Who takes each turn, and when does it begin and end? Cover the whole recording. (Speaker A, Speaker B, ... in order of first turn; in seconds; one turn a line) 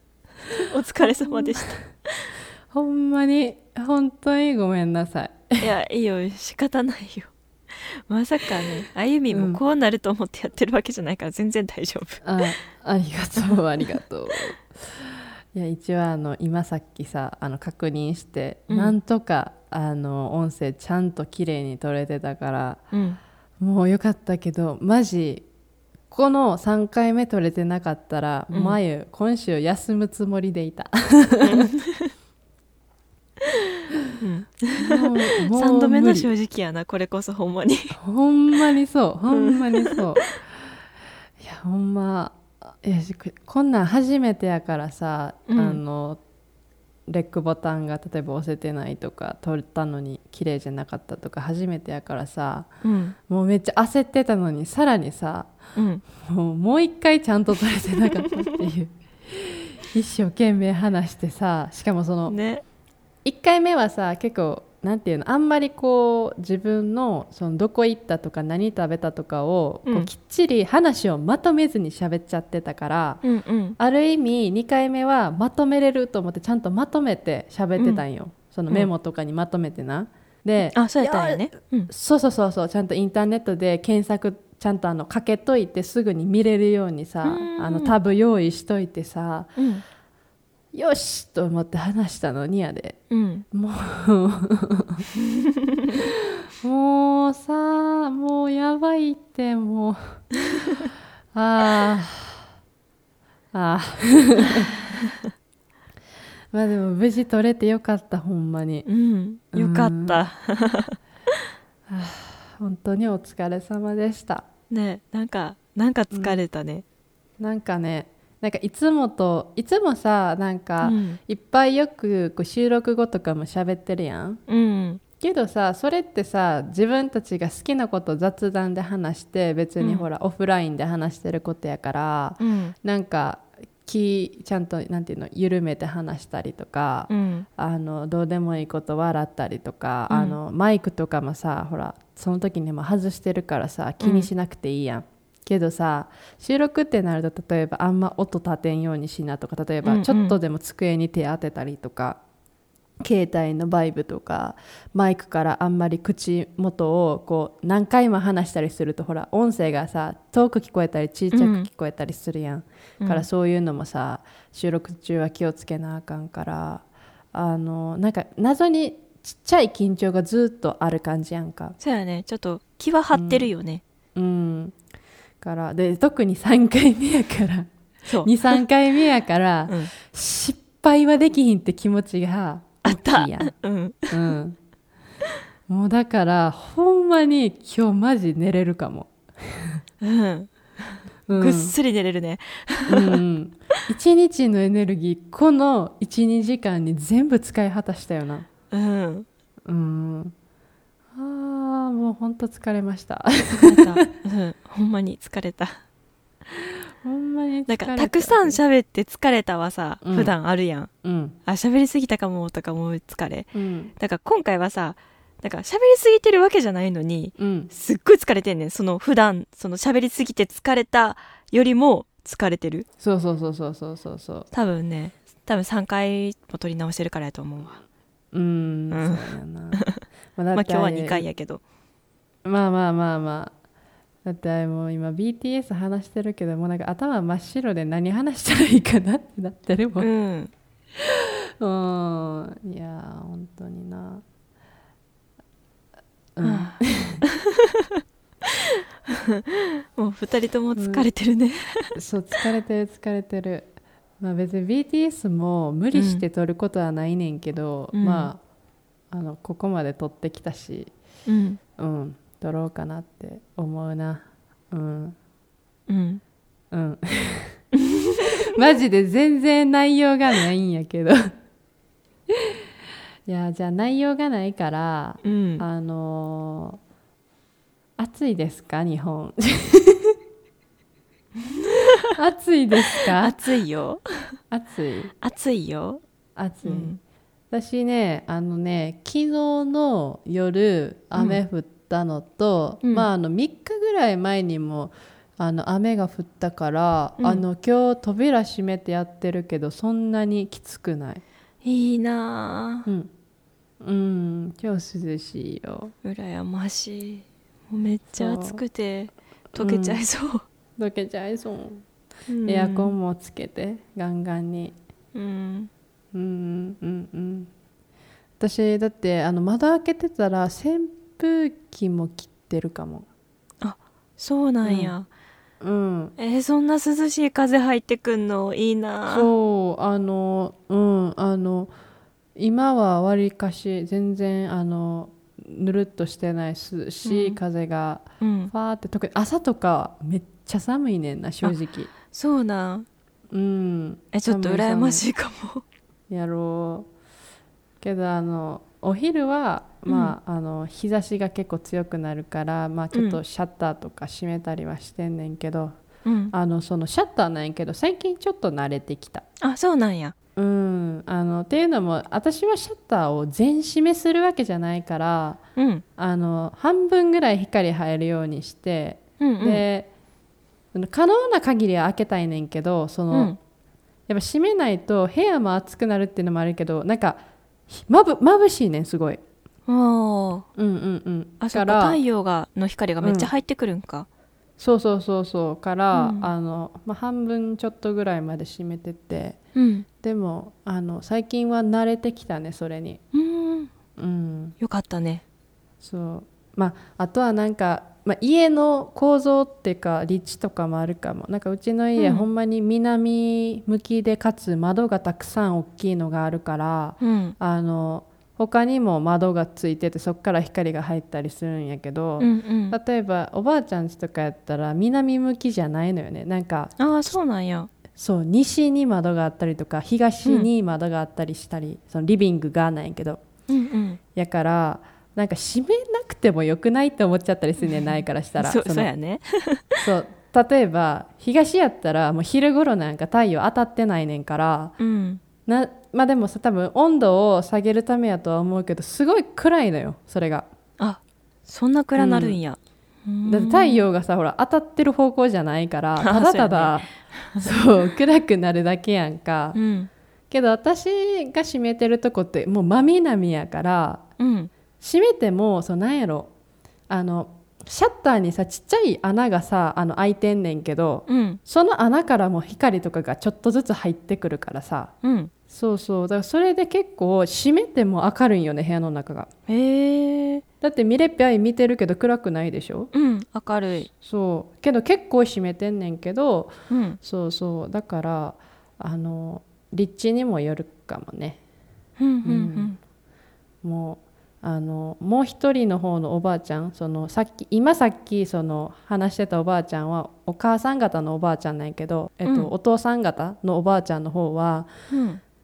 Speaker A: 0.6-2.3
Speaker B: 1.0-1.7
Speaker B: 2.7-5.7
Speaker A: 5.6-12.2
Speaker B: 9.3-9.6
Speaker B: 12.2-22.8
Speaker A: 18.7-18.9
Speaker A: 22.9-23.2
Speaker B: 23.6-25.5
Speaker B: 26.1-31.7
Speaker A: 28.5-28.8
Speaker A: 31.4-32.1
Speaker A: 34.2-38.0
Speaker B: 34.8-36.3
Speaker B: 38.0-40.5
Speaker A: 39.3-40.3
Speaker B: 41.4-46.2
Speaker A: 45.5-45.8
Speaker B: 47.1-52.7
Speaker A: 52.8-53.1
Speaker B: 53.3-55.5
Speaker A: 55.8-56.0
Speaker B: 56.2-62.4
Speaker A: 62.3-62.6
Speaker B: 63.2-73.2
Speaker A: 73.2-73.8
Speaker B: 73.8-89.5
Speaker A: 77.8-78.0
Speaker A: 80.6-81.9
Speaker A: 87.2-87.9
Speaker A: 89.6-89.8
Speaker B: 90.7-93.0
Speaker A: 93.1-93.5
Speaker B: 93.5-95.1
Speaker A: 95.2-95.9
Speaker B: 95.9-100.2
Speaker B: 101.3-102.5
Speaker B: 103.5-104.7
Speaker B: 106.5-108.9
Speaker A: 108.9-111.4
Speaker B: 109.5-110.2
Speaker B: 111.9-114.5
Speaker A: 114.7-116.8
Speaker B: 116.1-116.4
Speaker B: 117.4-124.4
Speaker A: 120.8-121.2
Speaker A: 124.5-125.0
Speaker B: 125.2-152.2
Speaker A: 129.8-130.1
Speaker A: 132.4-132.7
Speaker A: 137.1-137.4
Speaker A: 140.1-140.4
Speaker A: 144.0-144.3
Speaker A: 149.8-150.4
Speaker B: 153.0-171.8
Speaker A: 161.3-161.7
Speaker A: 163.0-163.3
Speaker A: 171.8-173.8
Speaker B: 173.1-173.5
Speaker B: 174.2-174.8
Speaker B: 175.4-177.7
Speaker A: 178.1-178.6
Speaker B: 178.2-183.5
Speaker A: 182.9-184.2
Speaker B: 184.1-184.6
Speaker B: 185.7-189.8
Speaker A: 190.0-193.2
Speaker B: 191.3-191.8
Speaker B: 192.9-198.5
Speaker A: 198.7-199.3
Speaker B: 199.7-200.3
Speaker B: 201.2-203.9
Speaker A: 203.6-205.8
Speaker B: 207.0-208.6
Speaker A: 207.7-210.9
Speaker B: 210.0-210.3
Speaker B: 211.0-211.4
Speaker A: 211.5-222.9
Speaker B: 213.5-213.9
Speaker B: 217.4-217.7
Speaker B: 223.0-224.5
Speaker A: 224.5-227.8
Speaker B: 228.3-229.8
Speaker A: 228.9-229.9
Speaker B: 230.4-231.2
Speaker A: 230.5-231.6
Speaker B: 232.4-233.5
Speaker B: 234.2-240.1
Speaker A: 240.0-240.5
Speaker B: 241.0-244.2
Speaker B: 246.4-247.2
Speaker A: 246.4-247.5
Speaker A: 249.1-251.9
Speaker B: 250.8-251.1
Speaker B: 252.0-258.4
Speaker A: 255.9-256.2
Speaker A: 257.9-258.3
Speaker B: 259.1-260.9
Speaker A: 261.3-261.6
Speaker B: 261.8-265.2
Speaker A: 265.9-266.2
Speaker B: 266.7-267.6
Speaker A: 267.7-268.2
Speaker B: 268.2-271.3
Speaker B: 273.3-276.8
Speaker A: 275.2-275.6
Speaker B: 278.0-280.1
Speaker A: 281.7-282.0
Speaker B: 282.1-283.4
Speaker A: 283.2-284.4
Speaker B: 284.5-285.1
Speaker A: 285.2-286.0
Speaker B: 286.4-286.9
Speaker A: 286.6-287.0
Speaker B: 287.5-301.2
Speaker A: 291.1-291.4
Speaker A: 292.8-293.1
Speaker A: 297.2-297.4
Speaker A: 301.6-302.9
Speaker B: 302.9-303.1
Speaker B: 303.8-305.9
Speaker A: 306.0-310.4
Speaker B: 308.1-308.6
Speaker B: 309.6-310.0
Speaker B: 310.8-311.9
Speaker A: 312.3-312.9
Speaker B: 312.4-314.8
Speaker A: 315.1-315.7
Speaker B: 316.1-317.5
Speaker B: 318.4-323.1
Speaker A: 323.6-325.1
Speaker B: 324.6-324.9
Speaker B: 325.6-326.1
Speaker A: 326.2-329.3
Speaker B: 329.1-331.7
Speaker B: 332.4-341.9
Speaker A: 337.0-337.4
Speaker A: 338.2-338.5
Speaker A: 342.1-342.9
Speaker B: 343.3-345.1
Speaker A: 344.1-345.6
Speaker B: 346.1-346.9
Speaker B: 347.8-355.8
Speaker A: 349.9-350.2
Speaker A: 352.9-353.2
Speaker A: 356.1-356.4
Speaker B: 356.3-359.2
Speaker A: 359.4-360.1
Speaker B: 360.4-365.4
Speaker A: 365.6-365.8
Speaker B: 366.0-369.9
Speaker A: 369.2-369.6
Speaker B: 370.7-373.4
Speaker A: 373.1-373.4
Speaker B: 374.1-379.2
Speaker A: 379.7-380.5
Speaker B: 380.6-382.0
Speaker A: 381.4-384.1
Speaker B: 383.0-383.3
Speaker B: 384.6-389.4
Speaker A: 385.9-386.3
Speaker A: 389.6-389.9
Speaker B: 390.0-393.0
Speaker A: 393.1-393.7
Speaker B: 394.0-394.6
Speaker A: 394.6-395.2
Speaker B: 395.8-416.8
Speaker A: 402.0-402.3
Speaker A: 407.0-407.4
Speaker A: 412.2-412.8
Speaker A: 416.8-417.7
Speaker B: 417.9-423.2
Speaker A: 423.5-424.0
Speaker B: 424.1-428.9
Speaker A: 427.6-429.8
Speaker B: 429.8-434.8
Speaker A: 434.8-435.2
Speaker B: 435.5-440.5
Speaker A: 440.8-443.8
Speaker B: 442.0-442.4
Speaker B: 443.2-449.6
Speaker A: 446.0-447.4
Speaker A: 449.5-449.9
Speaker B: 450.3-454.0
Speaker A: 454.2-454.5
Speaker B: 454.8-456.3
Speaker B: 456.9-464.9
Speaker A: 461.1-461.4
Speaker A: 465.0-465.3
Speaker B: 465.5-469.3
Speaker A: 469.5-470.4
Speaker B: 470.6-472.9
Speaker A: 472.9-473.9
Speaker B: 473.9-481.4
Speaker A: 476.7-477.0
Speaker A: 482.0-482.8
Speaker B: 482.2-482.7
Speaker B: 483.6-494.7
Speaker A: 492.2-492.5
Speaker A: 494.9-495.2